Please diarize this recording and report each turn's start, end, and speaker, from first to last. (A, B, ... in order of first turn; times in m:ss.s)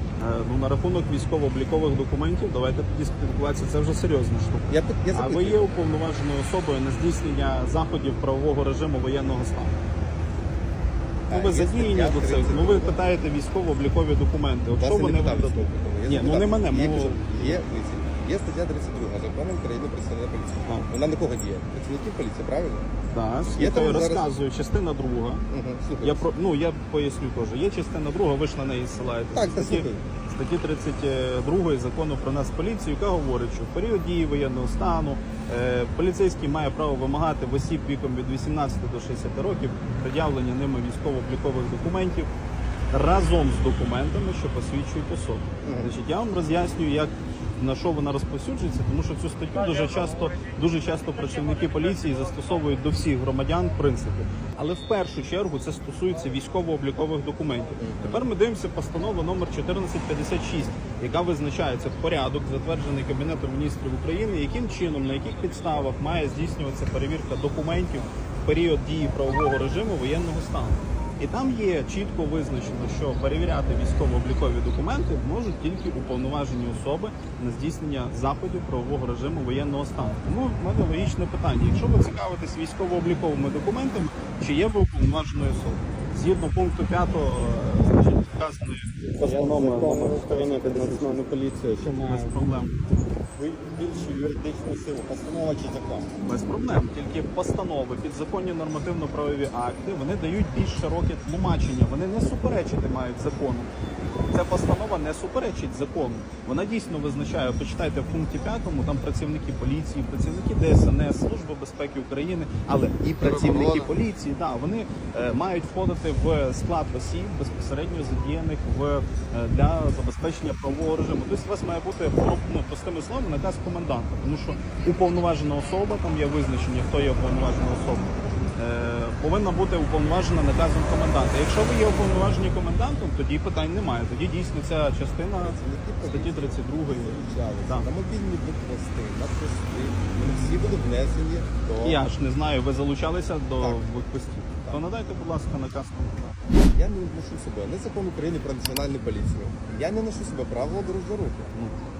0:00.2-0:09.8 A
0:04.7-0:05.6 B
0:11.3-0:13.0 B
0:11.3-0:17.6 A
0:14.8-0:22.9 B
0:23.1-0:25.4 A
0:23.5-0:24.3 B
0:25.5-0:26.2 B
0:26.0-0:42.3 A
0:29.3-0:30.0 B
0:42.9-1:30.0 A
0:45.6-0:45.9 B
0:57.8-0:58.3 B
1:29.1-1:32.4 C
1:30.7-1:31.2 A
1:31.8-1:32.8 A
1:33.4-1:36.1 B
1:36.2-1:43.7 A
1:44.3-2:17.9 A
1:53.2-1:53.9 B
2:15.4-2:22.0 B
2:21.8-2:26.4 A
2:23.6-2:23.9 B
2:26.7-2:31.5 B
2:31.5-2:31.8 A